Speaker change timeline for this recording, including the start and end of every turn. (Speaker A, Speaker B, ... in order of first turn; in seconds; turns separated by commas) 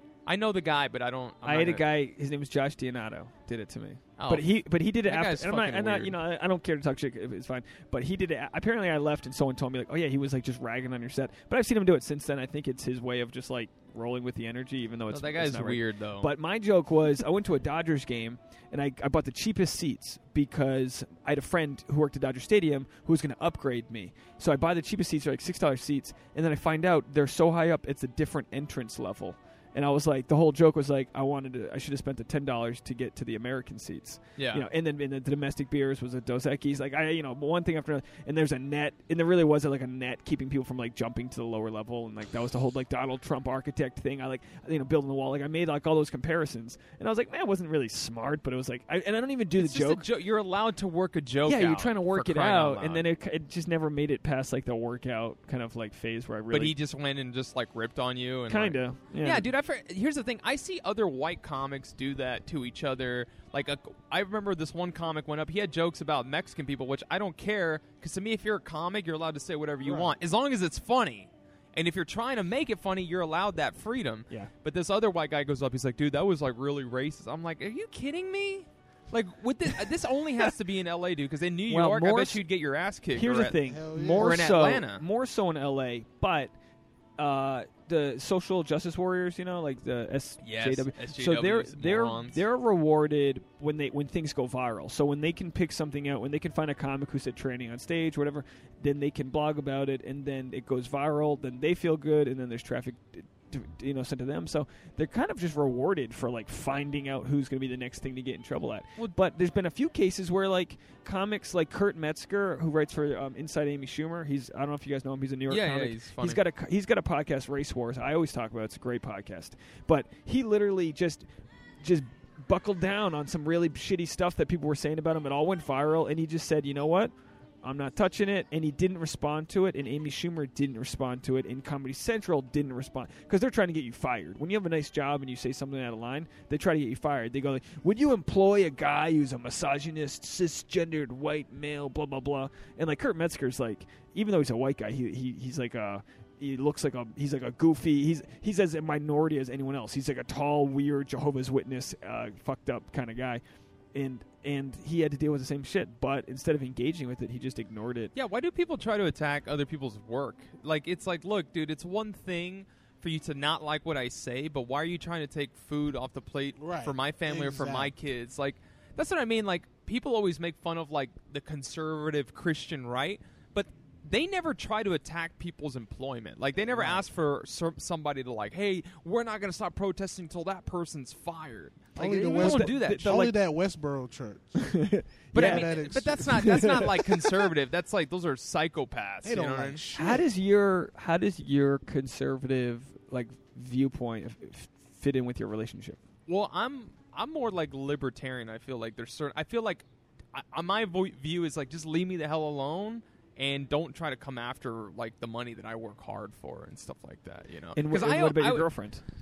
Speaker A: 0.2-1.8, Speaker B: 1.4-50.0, Speaker A: 4.2-4.5, Speaker A: 5.0-6.2, Speaker A: 15.1-16.3, Speaker A: 34.4-34.6, Speaker A: 49.6-53.0, Speaker B: 51.5-56.7, Speaker A: 56.5-83.6, Speaker B: 58.5-59.5, Speaker C: 69.8-70.1, Speaker B: 81.7-82.4, Speaker B: 83.1-86.5, Speaker C: 83.7-84.4, Speaker A: 84.1-85.0, Speaker B: 87.2-121.2, Speaker A: 90.4-92.4, Speaker A: 115.5-116.4, Speaker B: 121.8-127.1, Speaker B: 127.6-153.4, Speaker B: 153.9-158.1, Speaker A: 158.1-183.3, Speaker C: 166.6-167.9, Speaker C: 176.7-177.0, Speaker C: 181.9-184.8, Speaker B: 182.4-183.3, Speaker B: 184.6-187.3, Speaker C: 185.3-186.9, Speaker A: 185.3-189.8, Speaker C: 189.2-190.2, Speaker B: 189.9-196.0, Speaker A: 196.3-208.7, Speaker B: 207.7-209.0